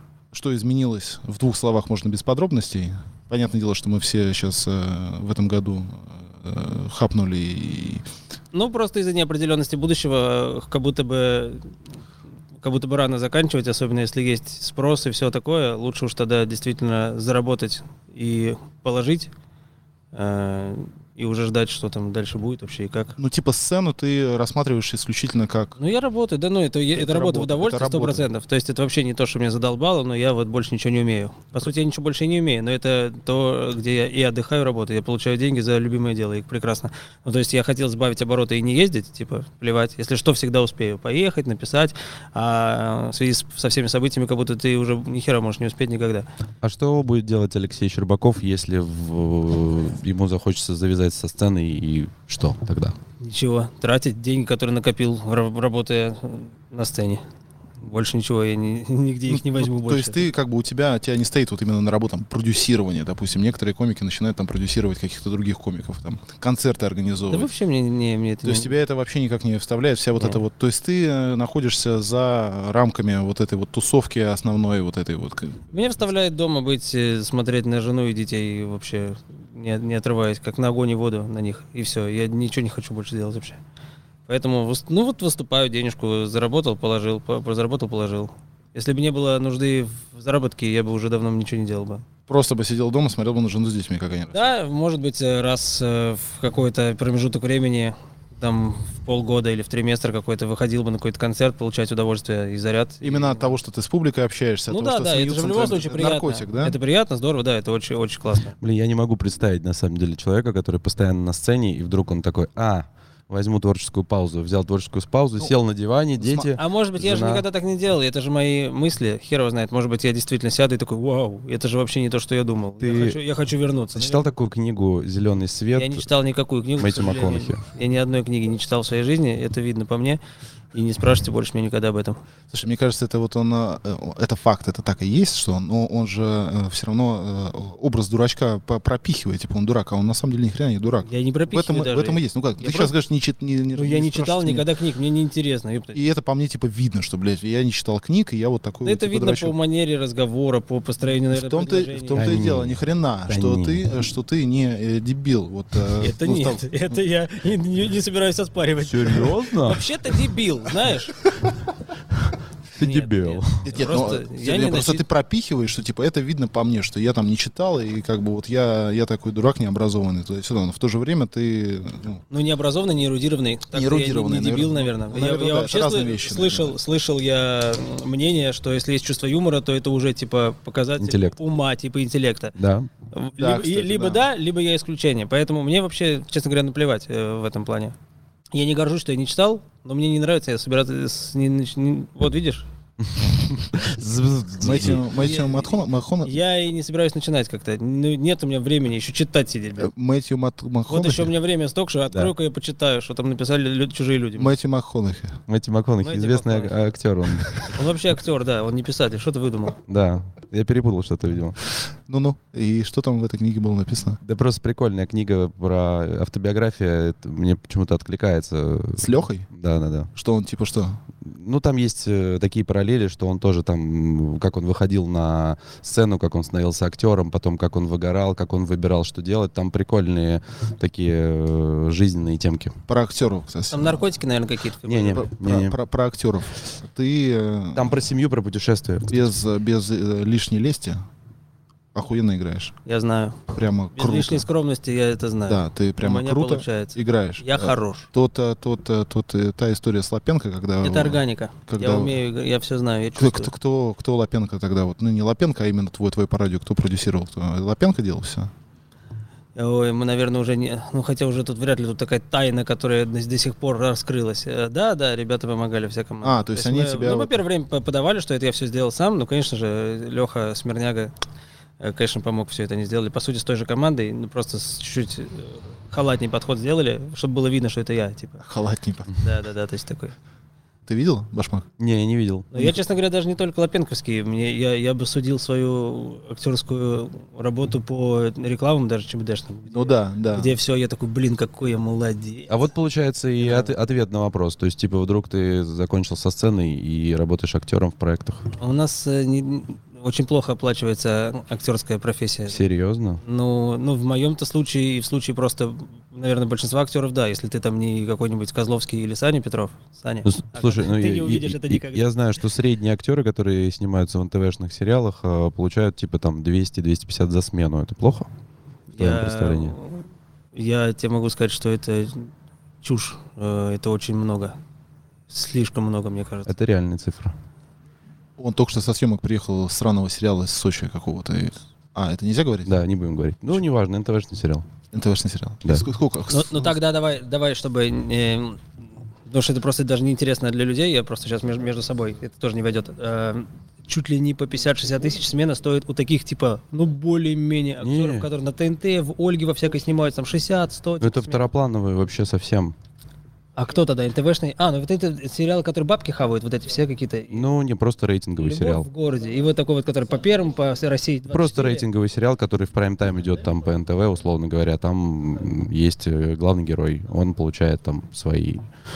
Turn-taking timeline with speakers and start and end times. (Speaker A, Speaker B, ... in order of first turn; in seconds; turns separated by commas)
Speaker A: 0.3-8.0, Speaker B: 8.5-11.6, Speaker B: 12.6-19.3, Speaker B: 20.1-23.2, Speaker A: 23.2-25.8, Speaker B: 25.8-46.3, Speaker A: 26.9-28.2, Speaker C: 46.6-53.0, Speaker B: 53.2-57.2, Speaker B: 57.8-60.3, Speaker A: 59.3-67.5, Speaker B: 67.3-68.7, Speaker A: 68.4-75.9, Speaker B: 75.7-83.6, Speaker B: 84.3-92.0, Speaker A: 92.3-94.5, Speaker B: 94.3-103.5, Speaker A: 103.0-106.8, Speaker B: 104.7-108.5, Speaker C: 108.6-117.4, Speaker A: 116.2-116.5, Speaker B: 116.6-124.3, Speaker C: 122.8-123.2, Speaker C: 123.9-126.0, Speaker B: 125.7-130.2, Speaker C: 126.8-127.6, Speaker B: 130.7-132.2, Speaker A: 132.5-144.7, Speaker B: 141.1-142.9, Speaker B: 143.7-146.0, Speaker A: 145.9-149.5, Speaker B: 148.8-152.4, Speaker A: 151.3-157.0, Speaker C: 152.1-153.9, Speaker B: 156.0-161.1, Speaker C: 158.8-159.8, Speaker C: 162.7-163.6, Speaker B: 162.8-165.0, Speaker A: 163.7-172.2, Speaker B: 172.3-182.5, Speaker A: 173.7-176.8, Speaker C: 181.0-181.4, Speaker C: 182.6-182.9, Speaker B: 183.1-187.9, Speaker A: 183.3-184.2, Speaker B: 188.5-192.7, Speaker C: 193.0-193.8, Speaker A: 193.2-196.3, Speaker C: 194.6-195.0, Speaker B: 194.9-199.9, Speaker A: 199.8-201.3, Speaker B: 200.9-204.6, Speaker A: 204.3-205.4, Speaker C: 205.5-207.7, Speaker B: 206.0-206.9, Speaker B: 207.7-209.8, Speaker C: 209.9-211.6, Speaker A: 212.1-214.2, Speaker C: 214.2-220.1, Speaker A: 219.0-219.5, Speaker A: 220.1-221.0, Speaker C: 221.2-232.8, Speaker A: 232.9-234.0, Speaker B: 233.7-235.3, Speaker C: 234.8-235.8, Speaker A: 235.1-238.0, Speaker C: 237.7-239.3, Speaker A: 239.1-241.0, Speaker A: 241.9-242.7, Speaker B: 242.8-243.4, Speaker A: 243.5-244.5, Speaker B: 243.9-248.1, Speaker A: 245.5-252.2, Speaker B: 250.8-253.5, Speaker A: 253.1-258.5, Speaker B: 259.6-271.1, Speaker A: 266.2-267.4, Speaker B: 271.8-278.4, Speaker A: 278.4-279.1, Speaker B: 279.2-280.1, Speaker A: 280.9-281.6, Speaker C: 281.8-282.5, Speaker B: 282.5-292.6, Speaker A: 289.7-290.6, Speaker C: 292.5-298.5, Speaker B: 293.4-293.7, Speaker B: 298.6-302.6, Speaker C: 302.5-303.2, Speaker B: 303.2-312.1, Speaker C: 310.2-318.3, Speaker B: 318.9-322.3, Speaker C: 319.0-319.8, Speaker B: 322.8-324.6, Speaker B: 325.3-326.5, Speaker C: 326.5-327.3, Speaker A: 328.4-332.8, Speaker C: 332.6-334.6, Speaker A: 334.9-336.8, Speaker B: 336.3-338.6, Speaker B: 339.3-351.5, Speaker C: 347.8-348.3, Speaker C: 351.0-352.7, Speaker B: 353.6-357.5, Speaker C: 357.3-358.9, Speaker B: 358.4-361.9, Speaker C: 361.3-368.7